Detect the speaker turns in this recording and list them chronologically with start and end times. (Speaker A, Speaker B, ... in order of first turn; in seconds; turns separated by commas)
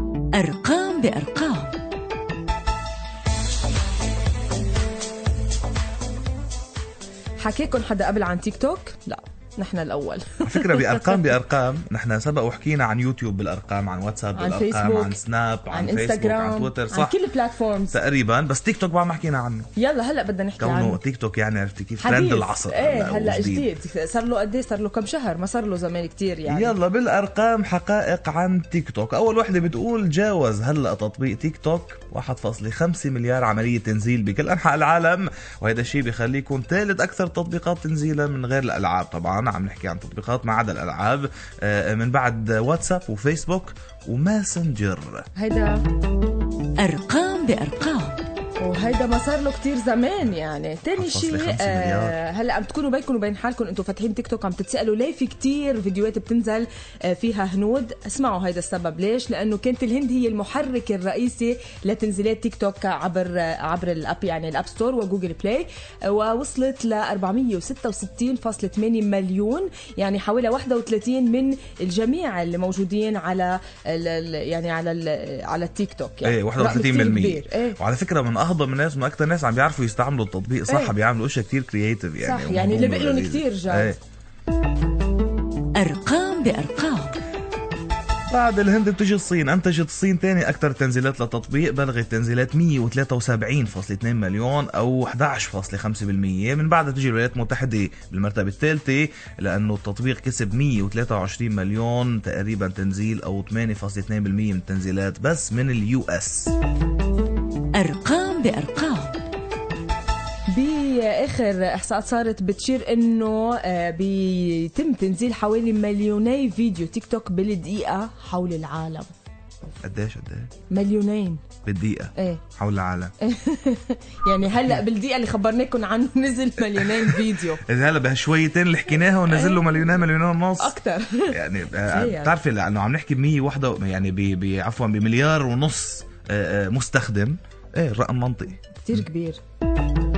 Speaker A: 0.3-1.7, Speaker B: 7.4-11.2, Speaker C: 10.4-17.2, Speaker B: 14.3-15.2, Speaker B: 15.7-18.0, Speaker C: 17.9-19.7, Speaker B: 19.8-21.0, Speaker C: 20.6-23.7, Speaker B: 22.0-26.8, Speaker C: 26.5-45.3, Speaker B: 45.4-45.8, Speaker A: 46.8-48.2, Speaker B: 48.6-77.8, Speaker C: 50.9-52.2, Speaker C: 76.2-84.0, Speaker B: 80.7-81.0, Speaker B: 82.2-84.0, Speaker A: 85.7-87.2, Speaker C: 88.3-106.5, Speaker A: 107.7-109.2, Speaker B: 110.5-119.1, Speaker C: 119.8-120.5, Speaker B: 120.7-121.4, Speaker C: 121.6-123.1, Speaker B: 122.2-122.4, Speaker B: 123.2-127.6, Speaker C: 124.5-124.8, Speaker C: 126.8-130.8, Speaker B: 129.2-130.0, Speaker B: 130.6-132.3, Speaker C: 131.3-139.0, Speaker B: 138.7-139.4